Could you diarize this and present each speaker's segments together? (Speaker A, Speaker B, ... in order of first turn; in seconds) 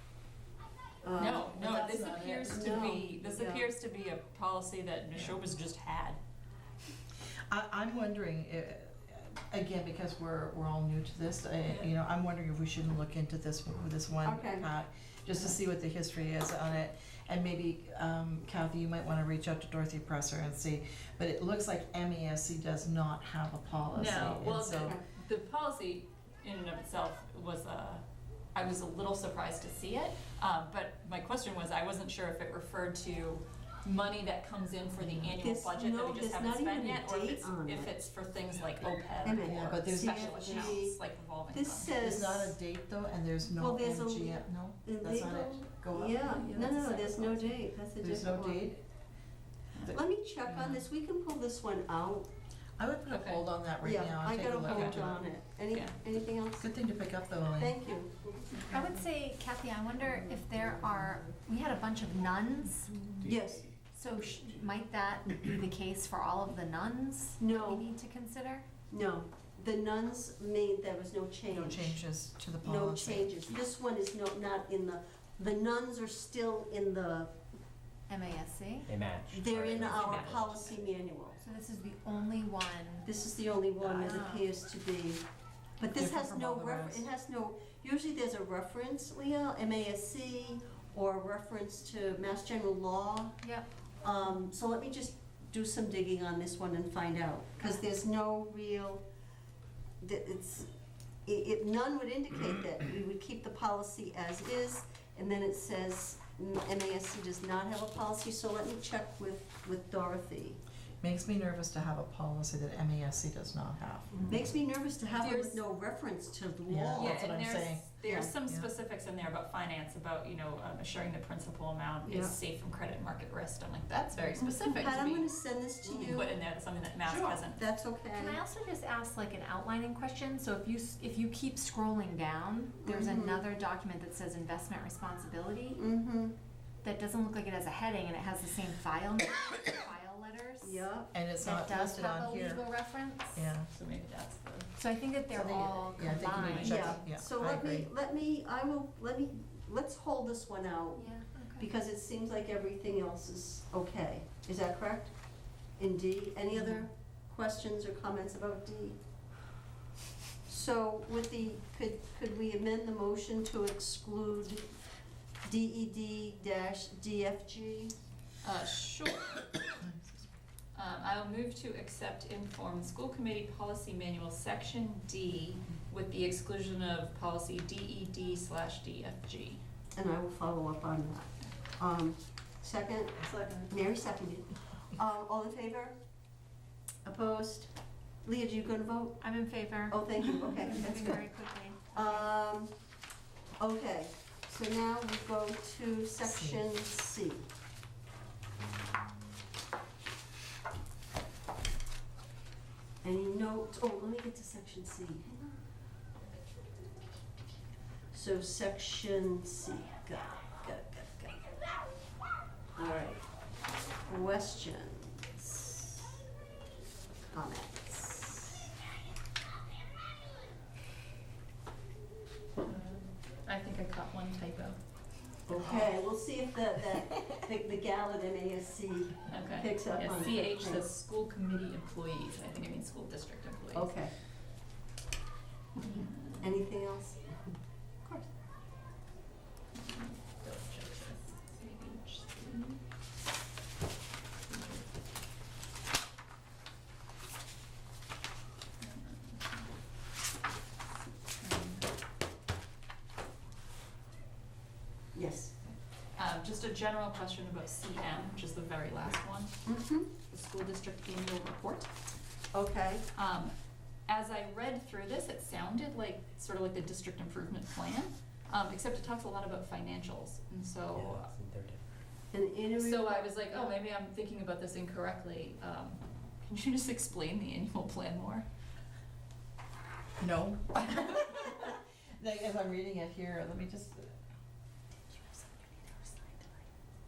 Speaker A: 1.0-1.6, 2.4-3.7, 14.2-14.7, 24.7-25.0, 35.3-37.9, 39.2-41.0, 41.5-42.5, 43.6-48.6, 49.8-52.3, 53.8-56.7, 57.6-58.6, 63.2-63.7, 67.4-67.9, 68.9-72.0, 72.6-77.3, 79.3-81.4, 83.0-85.2, 85.8-93.4, 94.0-99.0, 100.0-100.7, 101.2-110.6, 114.2-117.3, 118.0-118.3, 122.0-122.3, 124.4-126.4, 127.0-128.4, 132.8-133.4, 135.7-136.3, 140.6-141.1, 146.6-155.1, 155.8-159.0, 160.5-164.6, 165.4-167.9, 179.9-185.9, 187.0-187.7, 188.2-189.2, 189.9-191.2, 191.9-192.7, 193.6-197.4, 203.0-205.3, 208.1-211.4, 212.8-213.2, 214.1-216.1, 217.3-218.6, 225.5-230.8, 233.7-234.1, 236.4-237.2, 255.1-255.5, 259.6-260.1, 262.5-263.0, 272.3-273.7
Speaker B: 1.1-6.2, 11.6-11.9, 23.9-28.0, 28.5-41.9, 46.2-47.4, 49.8-50.8, 53.1-53.4, 54.6-55.0, 80.0-80.3, 115.1-115.6, 117.0-125.3, 125.8-127.6, 143.7-144.7, 146.3-146.8, 168.4-169.5, 170.7-179.6, 183.2-183.7, 222.6-224.8, 225.6-225.9, 229.3-234.0, 235.8-236.4, 239.7-242.8, 244.5-244.9, 248.8-249.7, 251.4-251.9, 256.2-259.5, 260.3-261.9, 263.1-263.5, 264.1-271.3, 272.8-278.4
Speaker C: 1.5-2.9, 7.5-25.0, 35.0-35.3, 39.4-40.8, 41.8-47.5, 48.0-48.8, 52.8-55.3, 56.6-57.8, 71.5-73.5, 83.8-84.1, 85.9-87.1, 111.0-114.5, 116.7-117.9, 141.1-142.6, 143.3-143.7, 145.3-147.9, 169.8-170.3, 196.2-196.6, 280.2-284.1
Speaker D: 58.7-63.1, 63.9-68.7, 78.1-78.9, 81.4-83.1, 84.0-84.5, 128.1-135.8, 136.8-140.9, 141.4-143.5, 144.8-147.0, 150.9-151.7, 189.2-192.3
Speaker E: 78.8-80.5, 270.9-271.9